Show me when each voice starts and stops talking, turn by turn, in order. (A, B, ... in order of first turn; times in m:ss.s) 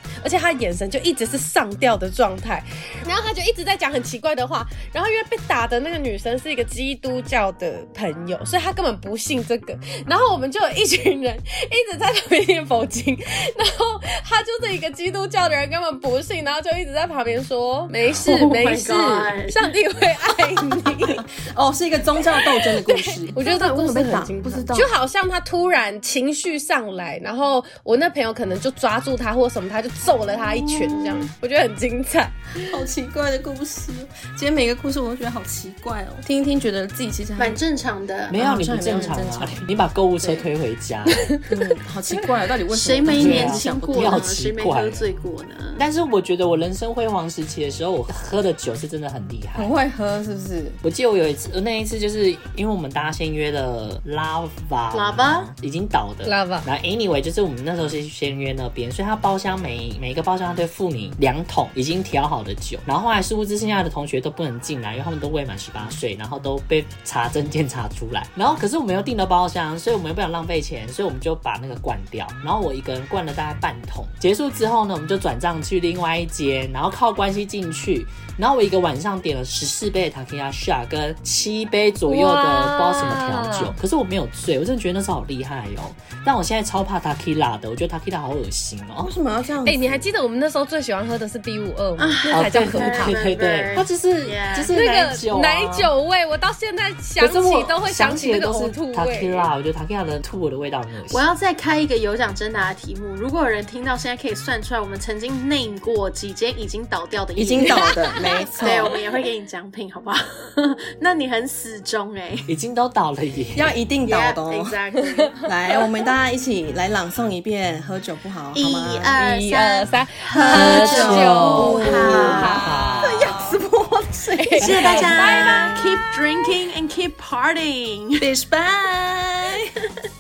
0:00.2-0:21.2 A
0:18.2-0:19.7 B
0:21.5-0:24.9 C
0:22.4-0:32.3 A
0:30.4-0:31.3 C
0:32.6-0:37.6 C
0:37.4-0:38.4 B
0:38.3-0:41.3 D
0:38.3-0:40.4 C
0:41.1-0:41.5 A
0:41.5-0:44.3 C
0:42.7-0:45.8 B
0:43.1-0:45.2 D
0:45.8-0:49.7 D
0:49.6-0:50.8 C
0:50.8-1:29.1 D
0:54.9-0:55.5 B
0:56.2-0:56.7 A
1:22.1-1:23.8 A
1:29.0-1:30.0 C
1:29.6-1:33.2 A
1:32.0-1:34.7 B
1:32.3-1:35.9 D
1:34.7-1:39.5 A
1:37.2-1:41.3 D
1:41.1-1:48.0 B
1:47.4-1:49.0 C
1:47.6-1:48.9 A
1:48.6-1:52.5 B
1:52.5-1:53.8 D
1:53.6-1:54.8 C
1:54.0-1:55.4 B
1:55.4-1:59.6 C
1:58.5-2:02.6 B
1:59.5-2:03.6 A
2:00.3-2:05.7 C
2:00.5-2:03.3 D
2:04.4-2:06.0 A
2:04.6-2:08.3 B
2:08.2-2:09.7 C